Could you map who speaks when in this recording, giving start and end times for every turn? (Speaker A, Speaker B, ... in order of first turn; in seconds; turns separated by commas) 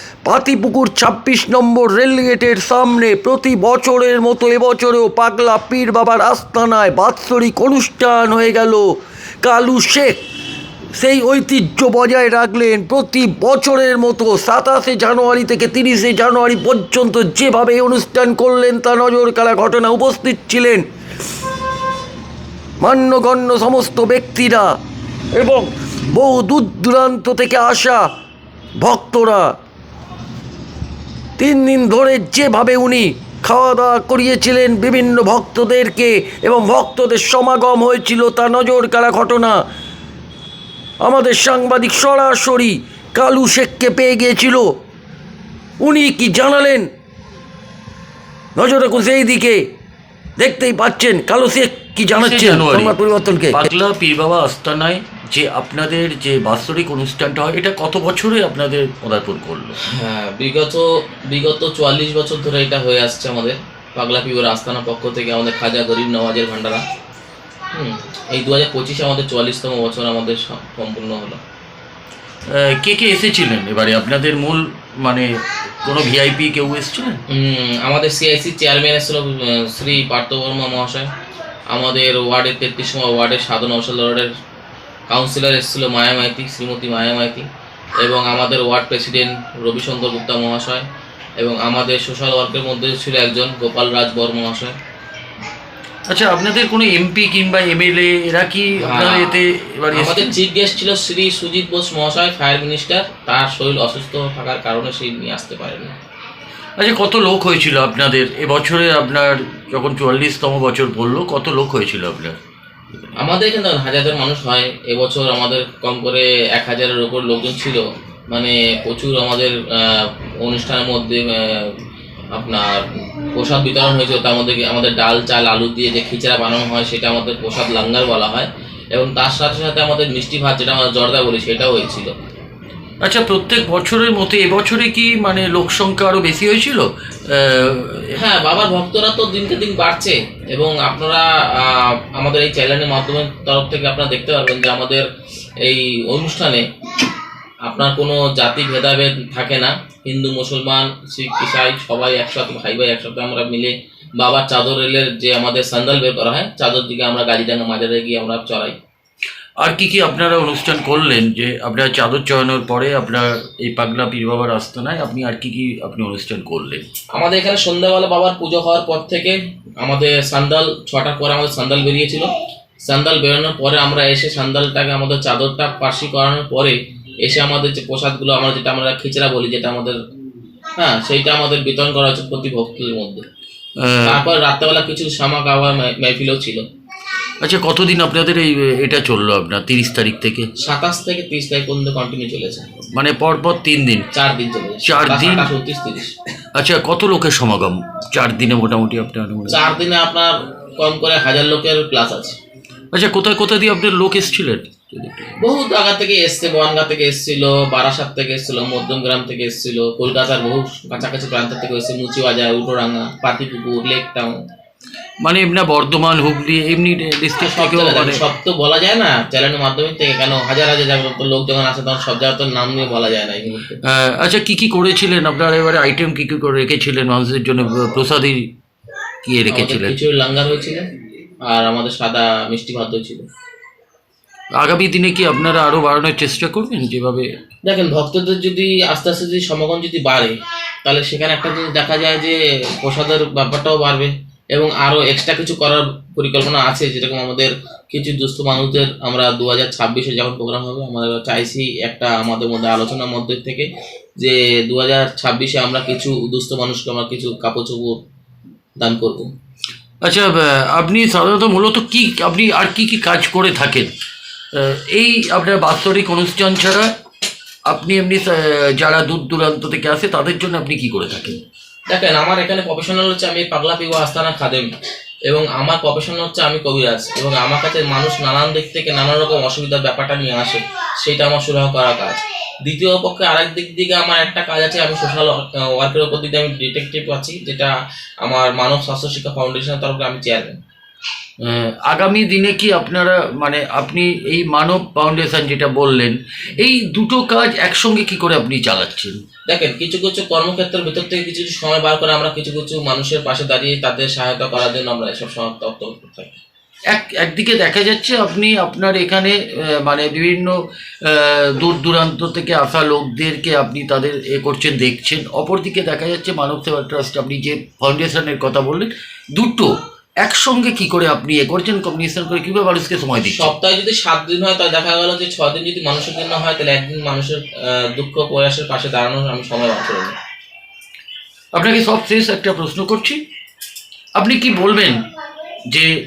Speaker A: 0.2-10.2, Speaker A: 11.0-20.9, Speaker A: 22.8-24.7, Speaker A: 25.4-28.1, Speaker A: 28.8-29.5, Speaker A: 31.4-39.6, Speaker A: 41.0-44.7, Speaker A: 45.8-46.9, Speaker A: 48.6-49.6, Speaker A: 50.4-53.7, Speaker B: 52.1-59.8, Speaker C: 59.9-66.8, Speaker C: 67.7-71.4, Speaker B: 72.5-75.3, Speaker B: 75.8-77.2, Speaker C: 77.3-81.1, Speaker C: 81.7-84.3, Speaker C: 85.1-87.5, Speaker C: 88.0-90.8, Speaker C: 91.4-94.8, Speaker B: 96.1-100.3, Speaker C: 98.8-105.9, Speaker B: 106.8-112.4, Speaker C: 113.2-121.8, Speaker C: 122.3-132.2, Speaker B: 133.0-138.2, Speaker C: 138.1-145.1, Speaker C: 145.6-146.6, Speaker C: 147.7-158.8, Speaker B: 159.6-166.9, Speaker C: 167.1-172.3, Speaker C: 172.8-180.0, Speaker C: 180.8-183.2, Speaker B: 183.8-184.2, Speaker C: 184.0-186.6, Speaker B: 187.4-190.5, Speaker C: 190.6-192.7, Speaker B: 193.0-194.1, Speaker C: 194.1-196.2, Speaker B: 194.9-195.5, Speaker B: 196.6-199.6, Speaker C: 199.5-202.4, Speaker B: 202.9-205.4, Speaker C: 205.4-214.4, Speaker B: 215.2-218.2, Speaker C: 217.4-223.8, Speaker B: 223.8-228.5, Speaker B: 229.2-230.0, Speaker C: 229.5-230.9, Speaker C: 231.4-233.3, Speaker B: 234.6-237.3, Speaker C: 237.6-258.0, Speaker C: 258.8-259.3, Speaker B: 260.0-263.9, Speaker B: 264.5-266.9, Speaker B: 267.7-271.4, Speaker C: 271.9-274.7, Speaker C: 275.3-290.6, Speaker B: 291.4-299.2, Speaker C: 299.5-306.4, Speaker B: 306.9-323.5, Speaker C: 323.2-330.2, Speaker B: 331.5-333.2, Speaker B: 334.2-335.1